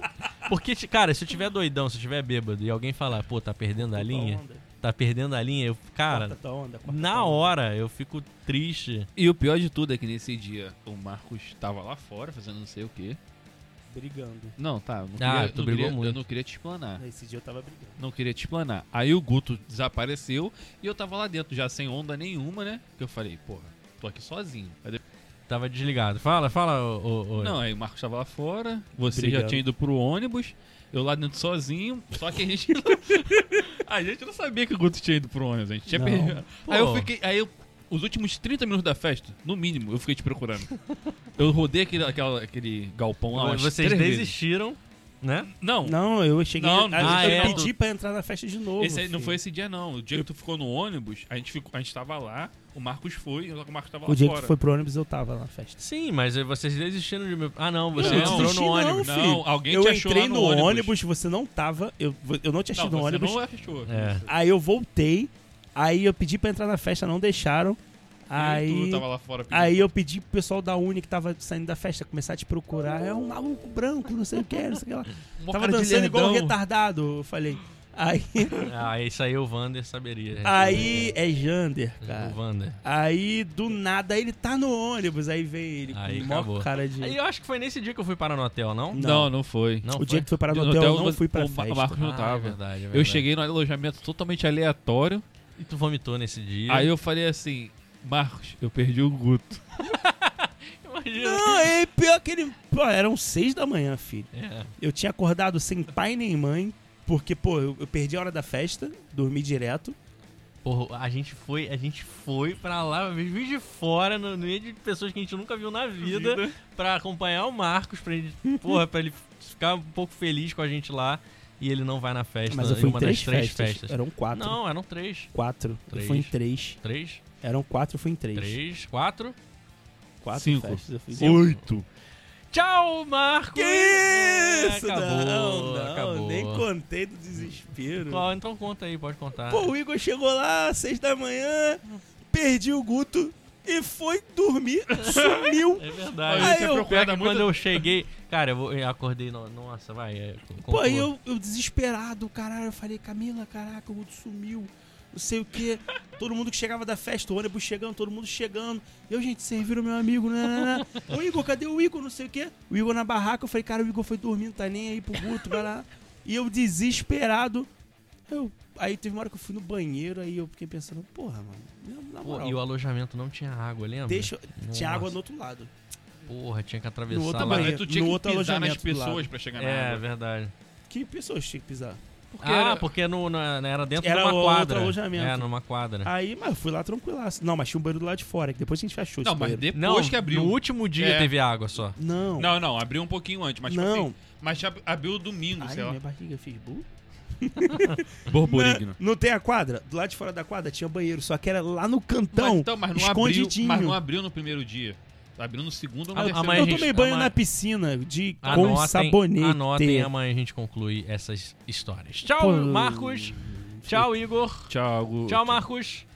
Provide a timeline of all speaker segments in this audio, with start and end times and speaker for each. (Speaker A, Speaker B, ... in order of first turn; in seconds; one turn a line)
Speaker A: 0.5-9.1
Speaker B: 3.8-4.6
Speaker B: 6.1-7.5
Speaker C: 9.2-13.2
Speaker B: 13.9-14.6
Speaker C: 14.6-17.0
Speaker A: 15.2-16.2
Speaker B: 17.0-18.0
Speaker C: 18.0-25.0
Speaker A: 25.5-27.6
Speaker C: 27.4-40.7
Speaker B: 29.1-29.6
Speaker B: 35.9-36.4
Speaker A: 36.6-37.1
Speaker C: 41.4-44.3
Speaker A: 43.3-45.5
Speaker C: 45.6-45.9
Speaker B: 45.8-49.4
Speaker C: 46.6-47.7
Speaker A: 47.0-47.7
Speaker C: 48.8-54.5
Speaker B: 54.1-55.8
Speaker A: 55.8-59.0
Speaker B: 58.0-63.4
Speaker C: 58.0-61.0
Speaker C: 62.7-64.3
Speaker A: 63.9-64.2
Speaker B: 64.2-78.6
Speaker C: 68.3-69.9
Speaker C: 75.4-76.6
Speaker A: 78.5-81.2
Speaker B: 80.4-87.2
Speaker A: 82.0-82.8
Speaker A: 85.9-89.0
Speaker B: 88.9-89.3
Speaker C: 89.0-89.9
Speaker A: 89.8-90.3
Speaker B: 89.9-92.0
Speaker C: 90.5-95.2
Speaker A: 92.0-93.3
Speaker A: 95.6-96.9
Speaker C: 96.7-99.6
Speaker A: 99.8-101.8
Speaker B: 101.2-110.0
Speaker A: 104.3-104.7
Speaker A: 110.6-125.3
Speaker C: 116.0-116.6
Speaker B: 122.5-124.6
Speaker B: 125.3-126.8
Speaker A: 125.9-127.2
Speaker B: 127.4-128.6
Speaker A: 128.3-129.3
Speaker B: 130.2-131.6
Speaker C: 130.3-131.8
Speaker A: 131.2-131.5
Speaker A: 132.5-136.7
Speaker B: 133.5-138.3
Speaker A: 138.0-139.7
Speaker B: 139.5-147.0
Speaker C: 145.0-145.6
Speaker A: 145.8-151.1
Speaker C: 146.2-147.9
Speaker B: 150.6-167.7
Speaker A: 160.7-161.1
Speaker B: 168.3-172.6
Speaker A: 172.2-175.1
Speaker B: 174.1-175.7
Speaker A: 176.3-177.8
Speaker B: 177.1-179.3
Speaker C: 177.4-180.0
Speaker A: 179.6-180.5
Speaker B: 180.9-182.0
Speaker A: 182.3-186.1
Speaker C: 182.4-182.9
Speaker B: 184.0-185.5
Speaker B: 186.0-189.7
Speaker C: 189.2-191.3
Speaker A: 189.7-191.9
Speaker B: 191.9-192.5
Speaker C: 192.4-196.0
Speaker B: 193.6-194.2
Speaker B: 195.6-196.8
Speaker B: 197.4-204.0
Speaker C: 198.3-199.0
Speaker C: 202.3-206.9
Speaker A: 206.1-207.3
Speaker B: 206.4-210.1
Speaker A: 208.4-214.7
Speaker B: 212.3-214.1
Speaker C: 214.7-215.6
Speaker A: 215.3-216.1